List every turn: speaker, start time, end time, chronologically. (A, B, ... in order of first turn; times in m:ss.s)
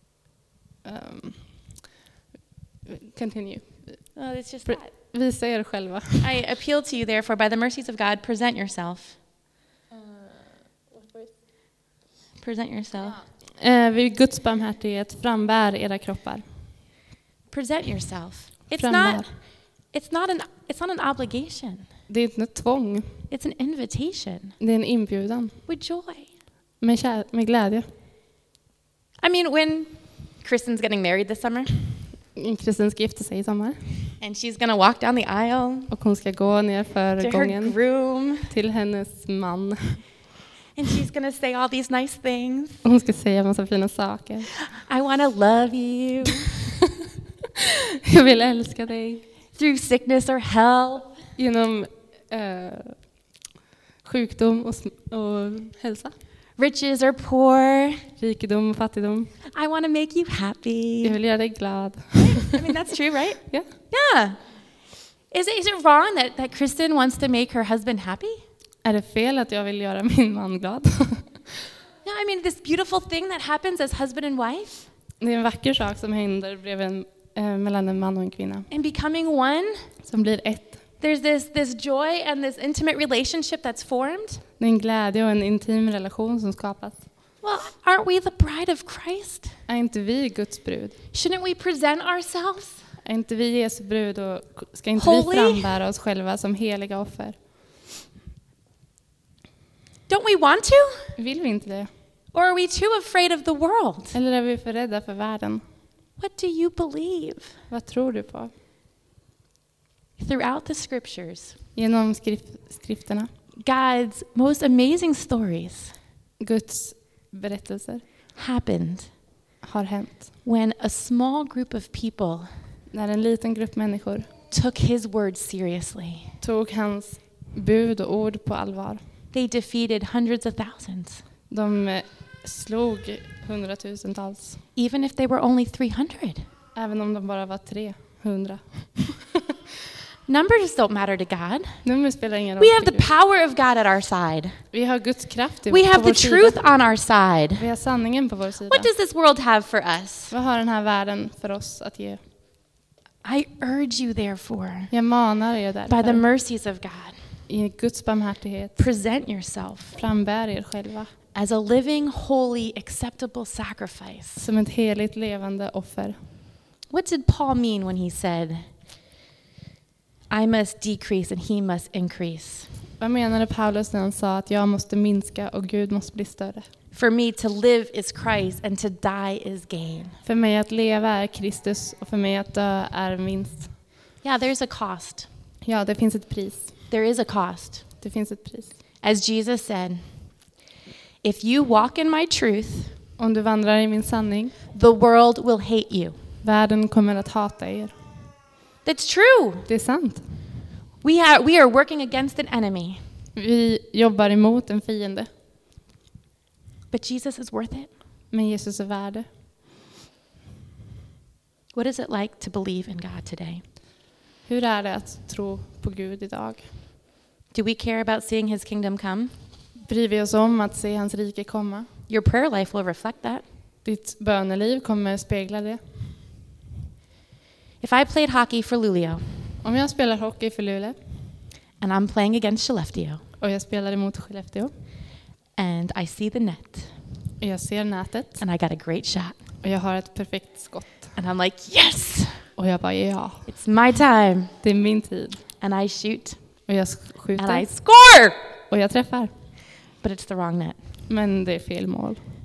0:00.8-0:01.4 A
0:02.9-0:04.0 A
0:04.2-0:04.9 B
0:04.6-0:06.3 A
0:06.2-0:09.2 B
0:12.4-0:13.2 B
0:13.6-0:16.4 A
0:17.5-0:19.2 B
0:18.8-0:19.3 A
0:19.9-0:21.8 B
0:22.1-0:23.2 A
0:23.3-0:24.6 B
0:24.6-0:25.6 A
0:25.7-0:26.3 B
0:26.8-0:27.8 A
0:29.2-0:31.7 B
0:32.4-0:34.0 A
0:34.2-0:35.9 B
0:35.9-0:37.8 A
0:37.2-0:38.5 B
0:38.5-0:40.0 A
0:40.8-0:42.8 B
0:42.8-0:44.5 A
0:44.6-0:46.5 B
0:48.0-0:49.2 A
0:49.6-0:51.1 B
0:51.4-0:53.0 A
0:54.0-0:56.1 A
0:56.6-0:58.0 B
0:58.2-0:59.3 A
0:59.5-1:01.2 B
1:01.0-1:02.6 A
1:02.2-1:04.4 B
1:05.3-1:08.4 B
1:08.8-1:11.4 A
1:12.0-1:14.8 B
1:15.2-1:18.7 A
1:18.7-1:19.8 B
1:20.0-1:20.8 A
1:21.0-1:24.4 B
1:24.6-1:27.0 A
1:27.4-1:29.5 B
1:29.7-1:30.9 A
1:31.1-1:32.8 B
1:33.0-1:37.4 A
1:35.0-1:35.7 B
1:40.1-1:41.0 B
1:41.2-1:41.9 A
1:42.3-1:44.2 B
1:44.1-1:45.6 A
1:46.2-1:47.5 B
1:47.7-1:48.5 A
1:50.2-1:51.5 B
1:51.8-1:53.3 A
1:53.6-1:55.9 B
1:56.4-1:58.0 A
1:58.4-1:59.1 B
1:59.6-2:00.3 A
2:00.4-2:02.5 B
2:02.9-2:04.3 A
2:04.5-2:06.3 B
2:06.4-2:09.0 A
2:09.3-2:11.2 B
2:11.5-2:14.6 A
2:14.8-2:16.4 B
2:16.8-2:19.4 A
2:20.3-2:21.8 B
2:21.8-2:23.1 A
2:22.6-2:24.6 B
2:24.7-2:26.6 A
2:25.7-2:27.7 B
2:27.6-2:28.9 A
2:28.7-2:30.3 B
2:30.3-2:32.2 A
2:33.2-2:34.9 B
2:34.9-2:36.2 A
2:35.9-2:37.2 B
2:37.5-2:38.8 A
2:38.8-2:40.0 B
2:40.0-2:41.1 A
2:41.3-2:44.4 B
2:44.4-2:46.2 A
2:46.9-2:48.6 B
2:50.3-2:52.7 B
2:53.0-2:56.7 A
2:56.9-3:00.2 B
3:00.2-3:03.7 A
3:04.2-3:05.3 B
3:05.6-3:06.7 A
3:06.9-3:07.8 B
3:08.0-3:08.7 A
3:09.0-3:10.0 B
3:11.2-3:12.9 B
3:13.2-3:14.5 A
3:14.7-3:16.2 B
3:16.4-3:18.0 A
3:18.8-3:19.7 B
3:19.6-3:20.2 A
3:21.0-3:23.0 B
3:23.4-3:25.3 A
3:26.9-3:27.9 B
3:28.3-3:29.3 A
3:31.7-3:33.6 B
3:34.4-3:36.7 A
3:37.5-3:39.3 B
3:39.8-3:41.9 A
3:42.1-3:43.4 B
3:43.8-3:45.8 A
3:47.8-3:49.2 B
3:49.6-3:51.0 A
3:51.8-3:53.2 B
3:53.4-3:54.7 A
3:55.6-3:56.9 B
3:57.4-3:58.4 A
3:58.4-3:59.4 B
3:59.6-4:01.1 A
4:01.2-4:02.5 B
4:02.6-4:03.5 A
4:03.5-4:04.5 B
4:04.6-4:05.4 A
4:05.6-4:06.4 B
4:06.7-4:07.7 A
4:07.4-4:08.4 B
4:08.7-4:09.3 A
4:10.0-4:10.8 B
4:11.1-4:12.2 A